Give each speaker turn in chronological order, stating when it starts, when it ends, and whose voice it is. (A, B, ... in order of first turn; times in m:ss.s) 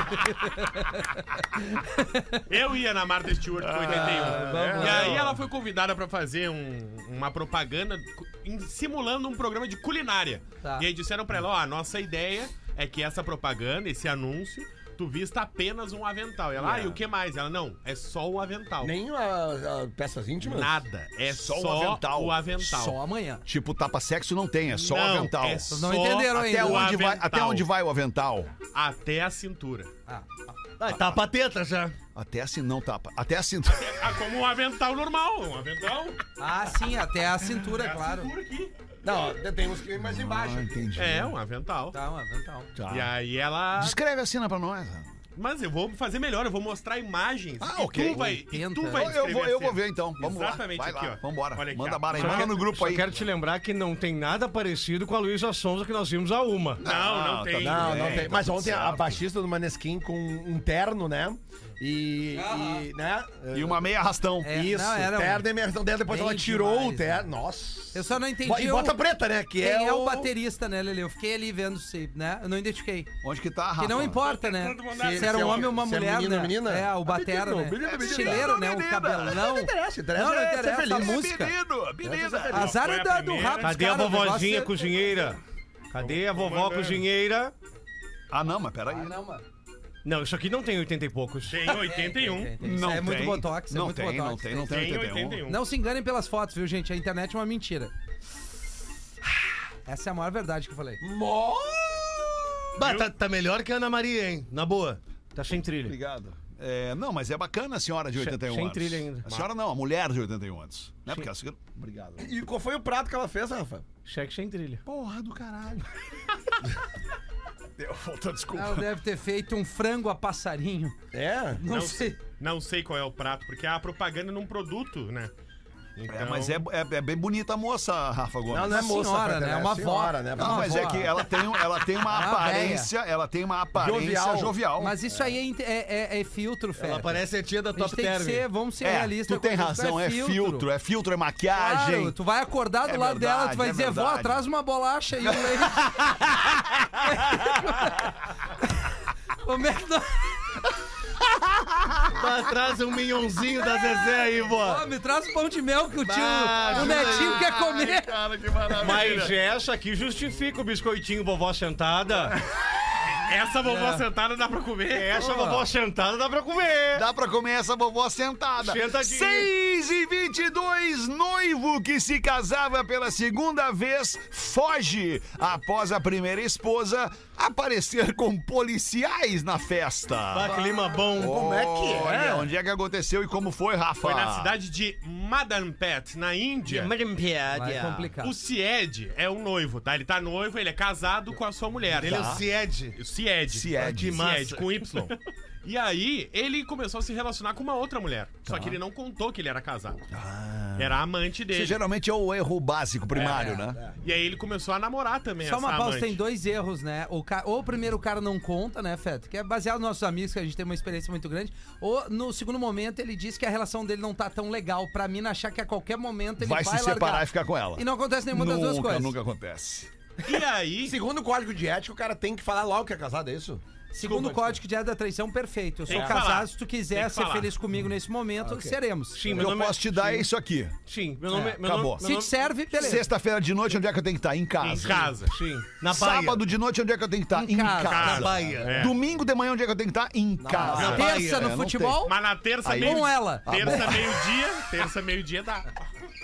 0:00.4-0:01.0 A
0:01.8-0:02.4 A
0:02.5-0:19.0 B
0:03.6-0:05.4 C
0:03.9-0:05.2 A
0:16.6-0:17.0 D
0:18.8-0:20.8 D
0:20.4-0:23.0 B
0:21.3-0:22.6 C
0:22.6-0:23.4 A
0:23.5-0:28.5 C
0:24.7-0:27.7 B
0:25.7-0:26.9 A
0:28.7-0:29.9 B
0:30.1-0:30.5 A
0:30.8-0:32.0 E
0:30.9-0:31.2 C
0:32.2-0:34.1 C
0:33.7-0:36.2 B
0:36.4-0:38.3 A
0:37.6-0:38.7 B
0:39.0-0:40.8 D
0:40.0-0:41.4 C
0:41.0-0:42.0 B
0:41.9-0:42.7 A
0:42.8-0:43.1 C
0:42.9-0:44.0 B
0:43.8-0:45.1 C
0:45.4-0:52.6 B
0:47.6-0:48.4 C
0:48.0-0:49.2 A
0:48.9-0:53.1 C
0:52.1-0:56.8 E
0:56.8-0:59.2 C
0:56.8-0:58.4 B
0:57.6-1:03.9 D
1:02.3-1:02.9 A
1:03.5-1:04.6 C
1:04.4-1:05.5 A
1:04.5-1:10.3 D
1:06.1-1:07.3 A
1:07.9-1:09.0 A
1:09.6-1:13.1 A
1:13.2-1:14.3 C
1:13.8-1:21.6 A
1:14.5-1:15.2 E
1:14.5-1:15.7 B
1:14.9-1:18.5 D
1:17.8-1:19.5 C
1:19.3-1:21.2 D
1:20.9-1:22.8 C
1:22.0-1:22.6 D
1:22.5-1:23.8 B
1:22.5-1:24.7 A
1:23.6-1:25.4 E
1:25.9-1:27.5 E
1:26.0-1:27.1 B
1:28.3-1:29.2 C
1:28.9-1:29.4 A
1:30.0-1:31.9 E
1:31.5-1:32.6 B
1:31.7-1:34.9 A
1:32.6-1:35.4 C
1:34.7-1:35.6 B
1:35.5-1:37.9 A
1:39.9-1:41.0 A
1:41.0-1:42.6 D
1:42.8-1:46.0 E
1:42.8-1:43.1 B
1:45.8-1:52.3 C
1:48.2-1:49.2 E
1:52.2-1:53.9 D
1:54.1-1:54.8 E
1:54.9-1:56.0 C
1:57.8-1:58.9 C
1:58.5-2:01.0 A
2:01.1-2:01.6 D
2:01.6-2:02.2 A
2:01.7-2:05.3 B
2:06.0-2:06.6 B
2:06.1-2:08.9 C
2:08.5-2:11.2 D
2:08.7-2:11.1 A
2:10.4-2:15.0 C
2:12.0-2:12.9 A
2:13.8-2:14.6 D
2:14.8-2:17.2 A
2:16.8-2:18.5 E
2:17.7-2:20.7 A
2:18.8-2:22.2 C
2:21.5-2:26.0 A
2:22.8-2:24.4 C
2:25.2-2:25.6 C
2:27.0-2:28.1 A
2:27.3-2:27.8 C
2:28.6-2:28.9 A
2:29.4-2:30.4 A
2:32.1-2:34.8 E
2:34.5-2:38.1 A
2:36.0-2:37.4 E
2:36.6-2:39.4 C
2:38.8-2:42.4 E
2:43.1-2:45.2 B
2:43.6-2:44.0 A
2:44.9-2:47.0 E
2:45.2-2:45.7 A
2:46.9-3:04.5 C
2:48.6-2:49.5 E
3:00.3-3:02.4 E
3:01.2-3:02.2 D
3:04.0-3:06.9 B
3:06.6-3:08.1 E
3:07.5-3:08.4 A
3:08.2-3:12.4 B
3:11.9-3:13.0 E
3:12.0-3:12.4 C
3:13.0-3:20.0 B
3:13.5-3:14.2 C
3:13.8-3:14.6 E
3:18.5-3:18.8 C
3:20.1-3:23.8 C
3:20.8-3:21.8 B
3:23.2-3:23.7 A
3:24.0-3:26.2 B
3:25.4-3:39.2 A
3:36.4-3:39.9 C
3:40.2-3:41.0 B
3:40.8-3:43.6 D
3:43.9-3:49.4 A
3:44.0-3:44.6 E
3:45.9-3:47.5 B
3:45.9-3:46.2 E
3:48.4-3:48.8 D
3:49.1-3:50.3 E
3:49.3-3:50.8 C
3:50.9-3:52.3 E
3:51.3-3:53.1 A
3:51.6-3:52.0 C
3:52.7-3:55.1 C
3:54.6-3:55.4 B
3:55.2-3:56.4 E
3:55.9-4:02.0 C
3:57.3-3:58.2 A
3:57.8-3:59.0 B
3:58.0-3:58.9 E
4:00.4-4:01.1 D
4:00.6-4:01.5 E
4:00.8-4:02.2 A
4:02.0-4:05.7 B
4:02.6-4:04.3 C
4:02.8-4:03.9 A